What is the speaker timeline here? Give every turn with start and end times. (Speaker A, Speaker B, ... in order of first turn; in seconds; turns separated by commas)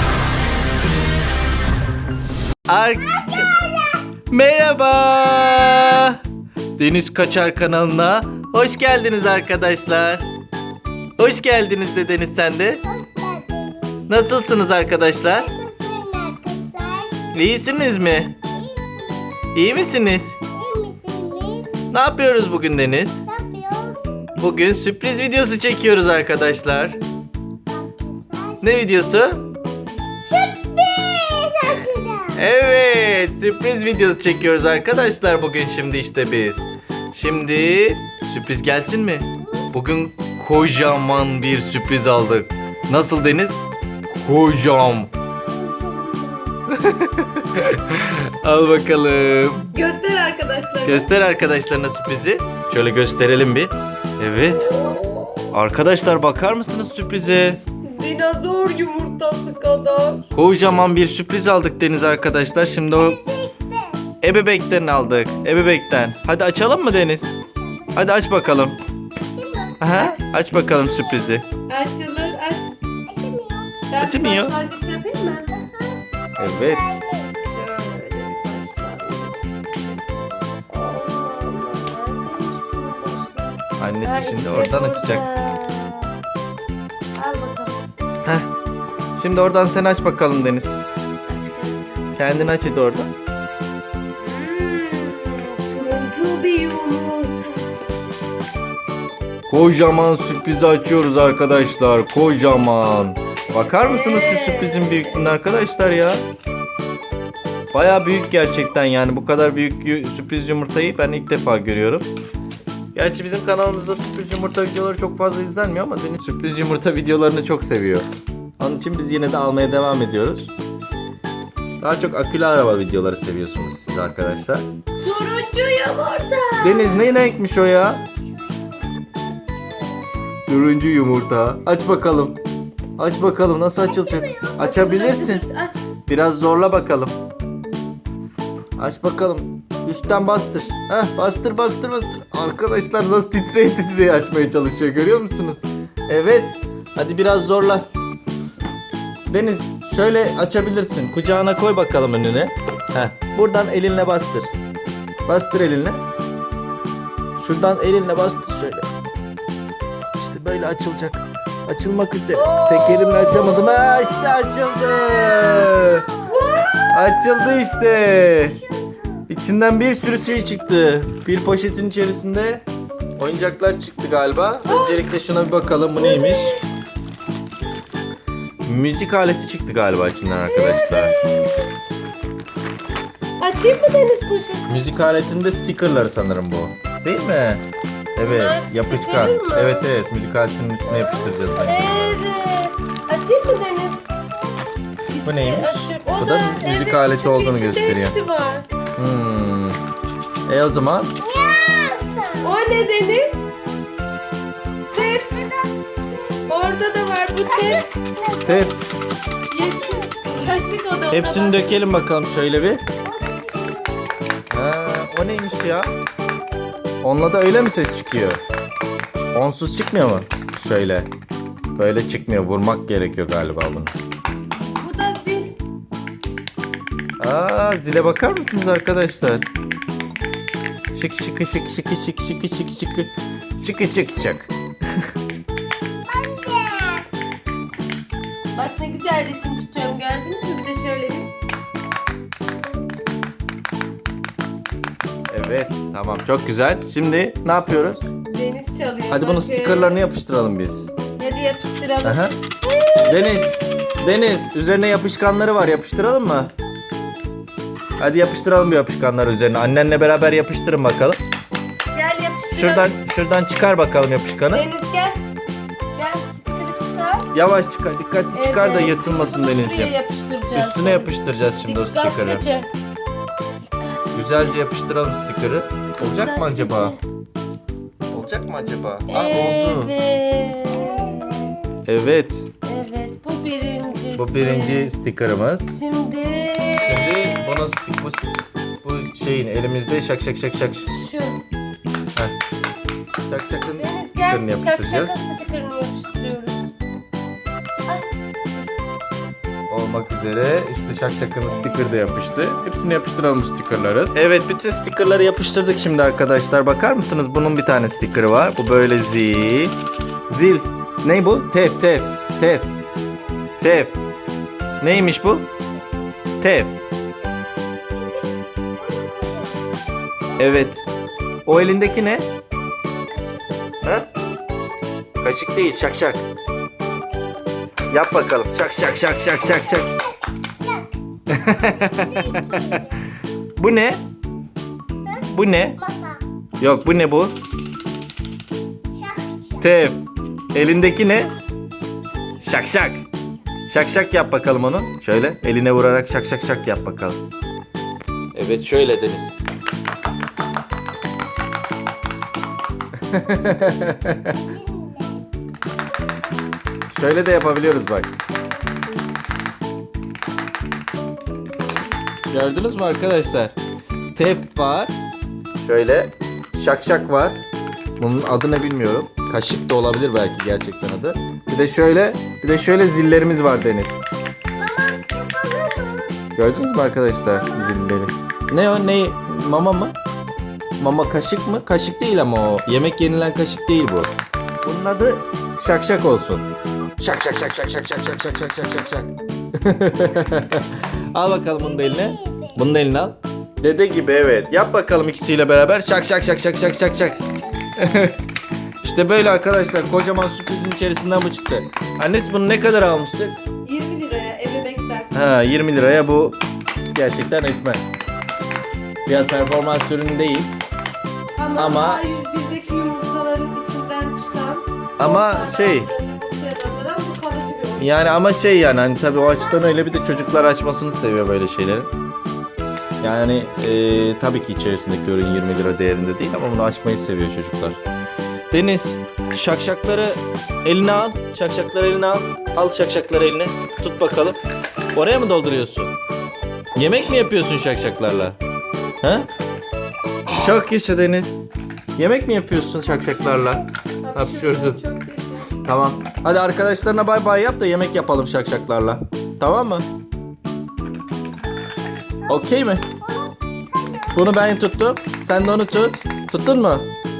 Speaker A: 2.7-6.2, Speaker B: 3.4-3.9, Speaker A: 6.8-10.2, Speaker A: 11.2-12.8, Speaker B: 12.9-14.1, Speaker A: 14.1-15.5, Speaker B: 15.3-17.3, Speaker A: 17.3-18.4, Speaker B: 18.6-19.3, Speaker A: 19.5-20.4, Speaker B: 20.5-21.9, Speaker A: 21.9-23.2, Speaker B: 23.3-24.1, Speaker A: 24.4-27.0, Speaker B: 27.7-28.8, Speaker A: 28.6-29.4, Speaker B: 30.3-32.4, Speaker A: 32.4-43.6, Speaker A: 44.1-45.1, Speaker C: 45.7-46.3, Speaker A: 46.7-49.7, Speaker C: 49.7-51.1, Speaker A: 50.9-54.7, Speaker C: 54.4-55.5, Speaker A: 55.5-57.6, Speaker C: 57.8-60.3, Speaker A: 60.3-63.2, Speaker B: 63.0-64.0, Speaker A: 64.2-67.3, Speaker B: 67.5-68.1, Speaker A: 68.0-68.8, Speaker B: 69.3-70.1, Speaker A: 69.8-71.4, Speaker C: 71.7-72.8, Speaker B: 73.1-73.9, Speaker C: 73.9-75.5, Speaker A: 74.0-74.6, Speaker B: 75.5-77.4, Speaker A: 76.4-76.8, Speaker C: 77.4-86.2, Speaker A: 83.8-85.3, Speaker C: 87.2-87.9, Speaker A: 89.2-90.8, Speaker C: 91.3-92.2, Speaker A: 92.2-93.1, Speaker C: 94.2-97.8, Speaker A: 99.5-106.2, Speaker C: 103.7-105.4, Speaker A: 107.7-112.1, Speaker A: 112.9-118.1, Speaker A: 118.6-120.5, Speaker A: 121.8-124.7, Speaker C: 125.0-127.1, Speaker A: 126.6-128.0, Speaker B: 128.3-130.1, Speaker A: 130.5-132.4, Speaker A: 133.0-135.4, Speaker C: 134.3-135.9, Speaker A: 136.1-137.2, Speaker A: 138.8-147.9, Speaker A: 149.3-154.5, Speaker A: 155.3-156.0, Speaker A: 157.4-158.9, Speaker A: 160.2-166.1, Speaker C: 162.3-164.3, Speaker B: 164.5-166.4, Speaker C: 166.2-167.2, Speaker A: 166.9-168.6, Speaker B: 168.8-169.0, Speaker A: 169.3-172.6, Speaker A: 173.2-176.6, Speaker C: 174.7-175.0, Speaker C: 176.0-176.6, Speaker A: 178.7-181.2, Speaker C: 180.5-181.7, Speaker C: 183.4-184.7, Speaker A: 184.7-187.6, Speaker A: 188.2-192.2, Speaker C: 188.2-189.9, Speaker C: 190.9-194.2, Speaker C: 195.1-198.7, Speaker A: 195.2-198.2, Speaker A: 199.0-199.8, Speaker A: 200.5-201.2, Speaker B: 201.2-202.6, Speaker C: 202.4-203.4, Speaker C: 204.9-205.4, Speaker B: 204.9-206.7, Speaker C: 206.5-207.9, Speaker B: 207.7-208.7, Speaker A: 208.4-208.8, Speaker C: 209.5-211.7, Speaker B: 209.5-210.3, Speaker A: 211.1-212.8, Speaker B: 213.0-214.1, Speaker A: 214.5-215.9, Speaker A: 217.0-218.4, Speaker A: 219.3-221.1, Speaker A: 221.8-223.9, Speaker C: 224.8-225.6, Speaker A: 227.2-229.5, Speaker A: 230.9-235.0, Speaker B: 236.1-237.1, Speaker C: 238.5-241.3, Speaker A: 245.3-248.1, Speaker C: 248.2-250.0, Speaker A: 249.1-250.9, Speaker C: 251.2-253.3, Speaker A: 252.0-252.3, Speaker A: 253.0-256.5, Speaker A: 258.0-261.2, Speaker C: 261.9-262.9, Speaker A: 262.5-264.7, Speaker C: 264.5-265.2, Speaker C: 265.9-267.3, Speaker A: 267.3-270.0, Speaker C: 268.4-272.7, Speaker A: 270.5-272.5, Speaker C: 273.8-274.6, Speaker A: 274.1-277.0, Speaker C: 276.0-277.0, Speaker A: 278.1-279.9, Speaker C: 279.1-281.6, Speaker A: 281.9-282.5, Speaker C: 282.6-285.0, Speaker A: 284.1-285.8, Speaker C: 285.7-287.6, Speaker A: 286.6-288.3, Speaker A: 288.8-290.9, Speaker C: 290.9-291.4, Speaker A: 293.2-295.2, Speaker C: 293.8-296.7, Speaker A: 299.7-309.8, Speaker C: 301.5-302.0, Speaker A: 310.3-312.7, Speaker A: 313.6-314.0, Speaker A: 314.8-315.5, Speaker A: 316.4-316.8, Speaker B: 317.9-319.7, Speaker A: 320.4-320.8, Speaker A: 321.5-322.3, Speaker A: 325.2-326.2, Speaker A: 327.9-329.9, Speaker B: 330.6-330.9, Speaker A: 331.3-332.9, Speaker B: 331.5-333.0, Speaker A: 333.6-334.0, Speaker B: 335.1-336.2, Speaker A: 335.3-335.8, Speaker A: 336.6-337.4, Speaker B: 338.9-339.6, Speaker A: 339.6-341.3, Speaker A: 342.4-343.0, Speaker A: 343.7-347.2, Speaker A: 348.3-349.3, Speaker A: 353.0-354.4, Speaker B: 354.3-355.3, Speaker A: 356.9-358.1, Speaker A: 362.3-363.6, Speaker A: 364.1-364.9, Speaker A: 365.6-367.4, Speaker A: 368.0-374.0, Speaker B: 374.6-376.3, Speaker A: 376.4-379.9, Speaker B: 377.6-377.8, Speaker A: 380.8-386.5, Speaker A: 387.0-397.2, Speaker B: 391.9-392.5, Speaker A: 397.8-398.2, Speaker A: 398.8-403.4, Speaker C: 403.6-405.1, Speaker A: 405.1-406.4, Speaker A: 406.9-408.0, Speaker A: 409.1-410.5, Speaker C: 411.4-418.2, Speaker A: 411.6-412.0, Speaker A: 415.0-415.9, Speaker A: 417.8-421.9, Speaker A: 423.0-427.8, Speaker A: 428.5-434.4, Speaker A: 434.9-435.9, Speaker A: 436.8-438.4, Speaker A: 439.0-439.3, Speaker A: 440.3-441.4, Speaker A: 442.0-444.8, Speaker C: 444.0-445.6, Speaker A: 445.6-449.9, Speaker A: 452.3-452.8, Speaker B: 453.0-454.2, Speaker A: 454.1-456.9